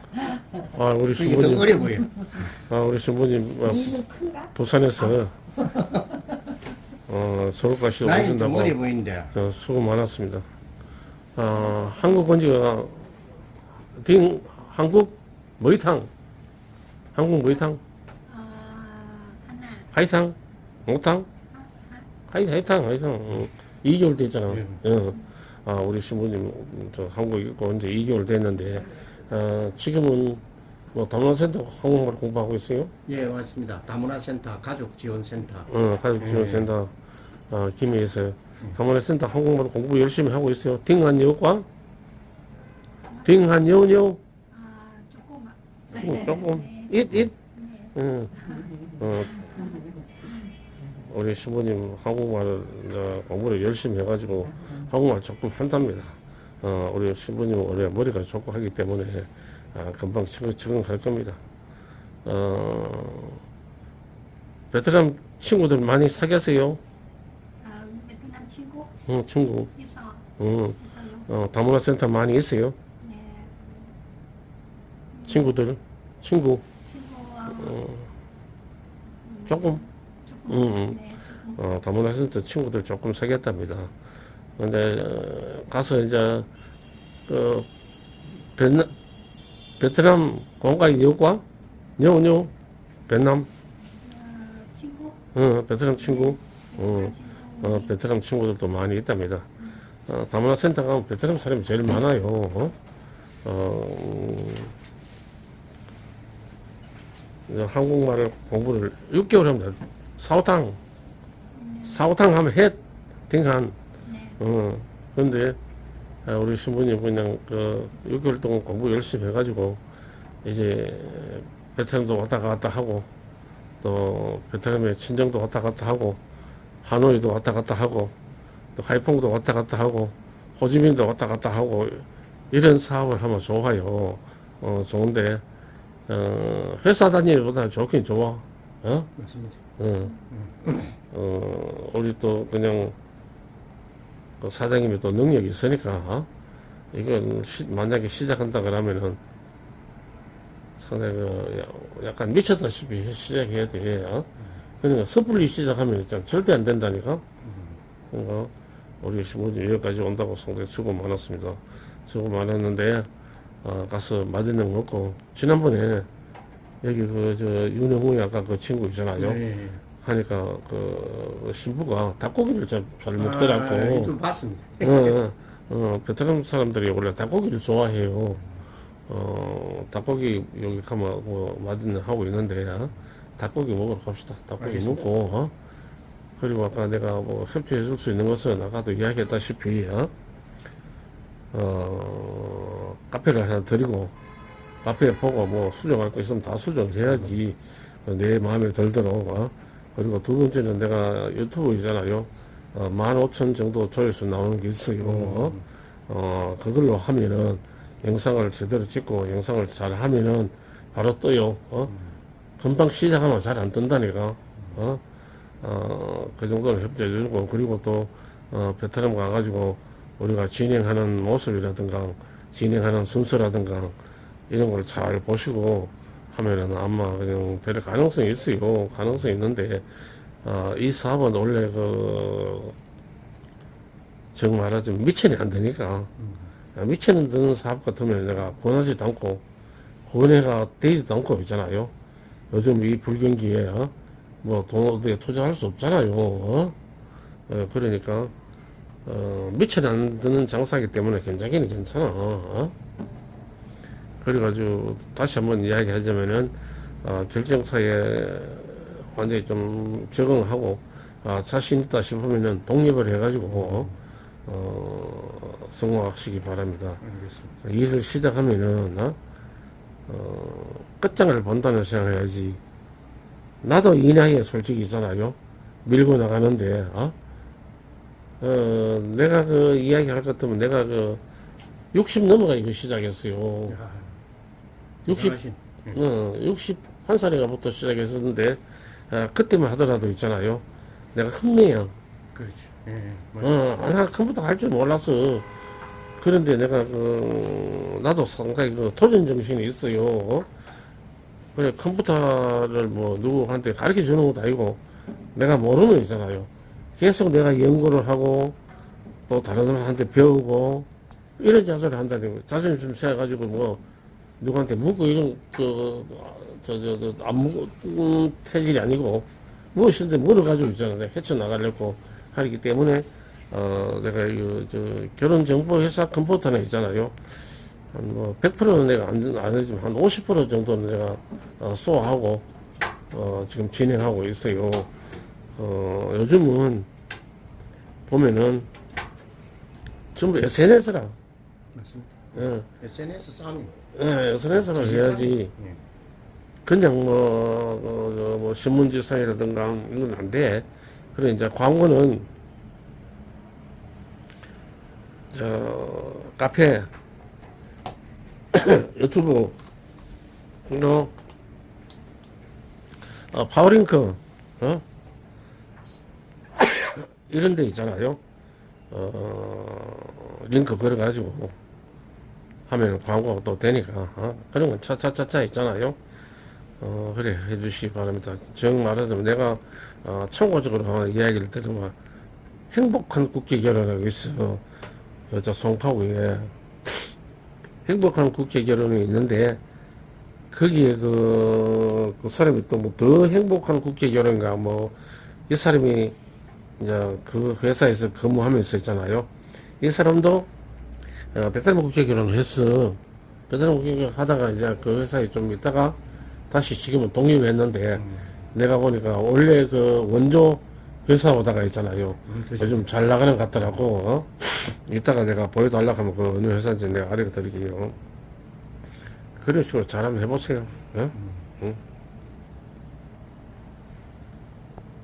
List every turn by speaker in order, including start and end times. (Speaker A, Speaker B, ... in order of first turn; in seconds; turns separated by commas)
Speaker A: 0.6-1.9, Speaker B: 1.1-2.3, Speaker A: 2.4-5.4, Speaker B: 5.8-6.1, Speaker A: 7.1-8.8, Speaker B: 8.0-9.3, Speaker A: 9.3-10.4, Speaker A: 11.3-13.2, Speaker C: 11.7-12.2, Speaker A: 13.9-16.1, Speaker A: 17.1-17.8, Speaker C: 18.3-19.9, Speaker A: 19.9-21.3, Speaker C: 21.5-22.1, Speaker A: 22.2-30.4, Speaker B: 24.5-24.8, Speaker A: 30.9-32.9, Speaker B: 33.0-35.7, Speaker A: 35.7-36.9, Speaker B: 36.2-36.7, Speaker A: 37.5-41.6, Speaker C: 43.1-43.5, Speaker A: 43.2-44.2, Speaker C: 44.5-47.9, Speaker A: 45.9-47.3, Speaker A: 47.9-49.6, Speaker A: 51.0-61.4, Speaker A: 62.2-63.4, Speaker A: 64.7-66.8, Speaker C: 67.6-68.9, Speaker A: 69.1-69.7, Speaker C: 69.7-70.2, Speaker A: 70.4-72.8, Speaker C: 70.8-71.3, Speaker C: 73.0-73.7, Speaker C: 75.1-75.5, Speaker A: 75.3-76.7, Speaker C: 76.8-77.8, Speaker A: 77.5-78.1, Speaker C: 79.2-81.6, Speaker A: 79.5-79.8, Speaker A: 80.5-81.0, Speaker A: 81.5-83.9, Speaker A: 84.6-86.5, Speaker A: 87.3-87.7, Speaker A: 88.5-88.9, Speaker A: 89.8-91.4, Speaker A: 92.0-92.5, Speaker A: 93.1-93.5, Speaker C: 94.0-95.2, Speaker A: 95.3-99.5, Speaker C: 96.0-98.0, Speaker A: 100.1-102.8, Speaker A: 103.4-104.7, Speaker A: 107.5-110.8, Speaker C: 111.5-112.1, Speaker A: 111.8-113.8, Speaker C: 114.0-114.4, Speaker A: 114.4-115.6, Speaker A: 116.2-119.8, Speaker A: 120.4-123.1, Speaker A: 123.8-126.2, Speaker A: 126.8-128.2, Speaker A: 128.8-135.4, Speaker A: 136.1-139.1, Speaker B: 139.2-139.6, Speaker A: 139.8-140.2, Speaker B: 140.3-140.9, Speaker A: 141.1-142.9, Speaker A: 144.4-146.3, Speaker A: 146.9-149.2, Speaker A: 150.8-154.3, Speaker A: 154.8-157.2, Speaker B: 157.4-157.8, Speaker A: 158.1-163.1, Speaker A: 163.6-166.1, Speaker A: 166.8-169.4, Speaker B: 169.2-169.8, Speaker A: 170.0-174.1, Speaker B: 173.2-175.2, Speaker A: 174.8-178.4, Speaker A: 179.1-185.5, Speaker B: 184.6-185.1, Speaker A: 186.4-190.1, Speaker A: 191.5-194.1, Speaker A: 194.8-211.9, Speaker B: 197.1-197.3, Speaker B: 205.0-205.6, Speaker A: 212.6-215.0, Speaker A: 215.6-223.9, Speaker A: 224.5-229.8, Speaker A: 230.4-232.8, Speaker A: 234.3-236.1, Speaker A: 236.7-239.4, Speaker A: 240.1-241.9, Speaker A: 242.5-243.9, Speaker A: 244.4-246.8, Speaker A: 247.5-248.3, Speaker A: 249.0-252.7, Speaker A: 254.2-263.9, Speaker B: 263.6-263.9, Speaker A: 264.4-267.0, Speaker B: 267.0-267.5, Speaker A: 267.6-269.2, Speaker A: 270.1-272.6, Speaker A: 273.6-277.1, Speaker A: 278.4-281.2, Speaker A: 281.9-283.8, Speaker B: 283.7-284.1, Speaker A: 285.1-285.4, Speaker B: 285.1-286.0, Speaker A: 285.9-290.6, Speaker A: 291.1-291.9, Speaker B: 292.3-293.6, Speaker A: 293.4-295.4, Speaker A: 296.2-300.5, Speaker A: 301.5-304.8, Speaker A: 305.3-308.6, Speaker A: 309.3-313.8, Speaker A: 314.4-327.1, Speaker A: 327.9-332.4, Speaker A: 333.1-334.9, Speaker A: 335.6-336.9, Speaker A: 338.1-338.7, Speaker A: 340.1-341.1, Speaker B: 341.7-343.7, Speaker A: 342.3-342.7, Speaker A: 343.9-345.5, Speaker B: 344.5-345.8, Speaker A: 346.6-352.3, Speaker A: 355.3-356.9, Speaker A: 358.5-359.6, Speaker A: 360.7-361.1, Speaker A: 363.3-364.8, Speaker A: 366.6-368.2, Speaker A: 368.9-371.5, Speaker A: 372.7-376.0, Speaker A: 376.8-381.9, Speaker A: 382.7-384.6, Speaker A: 385.3-386.5, Speaker A: 387.9-389.6, Speaker A: 390.5-395.0, Speaker A: 395.5-396.1, Speaker A: 396.8-400.5, Speaker A: 401.3-406.0, Speaker A: 406.5-418.0, Speaker B: 412.3-412.9, Speaker A: 419.4-421.8